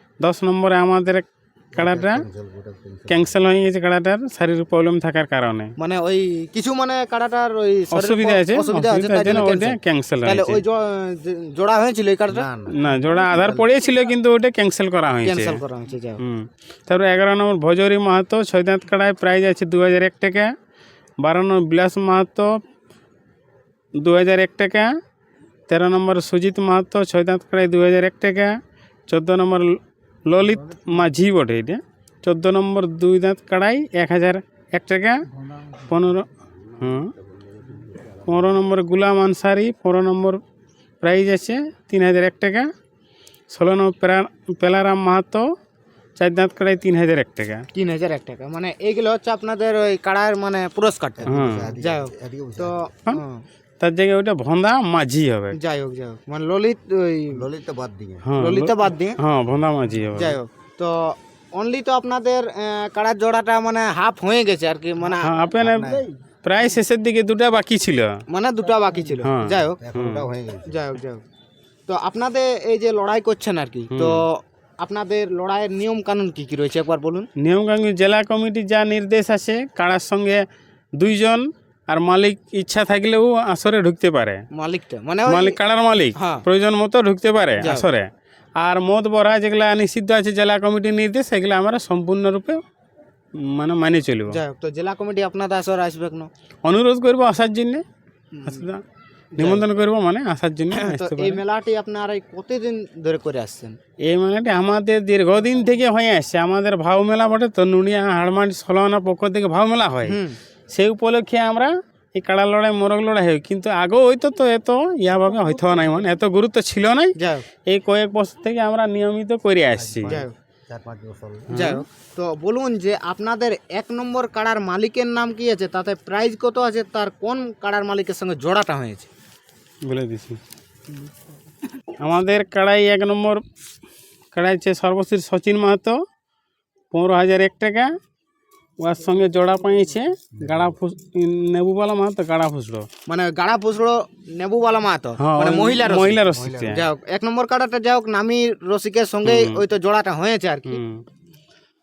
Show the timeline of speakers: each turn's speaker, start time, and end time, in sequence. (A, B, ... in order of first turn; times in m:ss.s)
0:00.2-0:02.2 A
0:01.7-0:03.3 B
0:03.1-0:05.7 A
0:05.8-0:12.5 C
0:07.9-0:10.6 A
0:12.3-0:13.6 B
0:12.7-0:15.6 A
0:15.2-0:16.2 C
0:16.2-0:20.5 A
0:21.2-0:22.5 A
0:24.0-0:24.9 A
0:25.7-0:28.6 A
0:29.1-0:35.2 A
0:35.8-0:36.3 A
0:36.8-0:37.1 A
0:38.2-0:40.4 A
0:41.0-0:42.7 A
0:43.5-0:45.4 A
0:46.2-0:47.6 A
0:47.7-0:53.4 C
0:51.2-0:52.8 B
0:51.2-0:51.8 A
0:53.8-0:55.6 A
0:55.5-0:57.5 C
0:57.3-0:58.3 B
0:58.2-1:00.4 A
0:58.4-0:59.2 C
1:00.1-1:05.4 C
1:05.2-1:08.2 A
1:05.6-1:06.0 B
1:08.3-1:09.8 C
1:09.2-1:10.3 A
1:09.8-1:10.8 B
1:10.6-1:11.2 C
1:11.9-1:17.3 C
1:13.9-1:14.2 A
1:17.4-1:20.4 A
1:21.0-1:24.4 A
1:24.5-1:25.6 C
1:25.2-1:32.6 A
1:26.1-1:26.4 C
1:27.6-1:27.9 C
1:33.4-1:34.4 A
1:34.3-1:36.3 C
1:36.6-1:37.8 A
1:38.3-1:38.7 C
1:38.4-1:38.8 A
1:39.4-1:39.6 C
1:39.4-1:41.4 A
1:40.7-1:43.8 C
1:44.0-1:50.2 A
1:50.0-1:50.4 C
1:50.7-1:57.1 A
1:57.2-1:57.5 C
1:57.7-2:00.1 A
1:59.8-2:01.6 B
2:00.0-2:00.3 C
2:01.5-2:01.8 A
2:01.5-2:09.1 C
2:09.8-2:10.4 A
2:12.0-2:13.4 A
2:14.3-2:16.0 A
2:16.9-2:17.9 A
2:18.8-2:22.9 A
2:23.1-2:30.8 C
2:25.2-2:26.8 A
2:26.3-2:26.8 B
2:29.2-2:29.6 A
2:30.7-2:31.0 A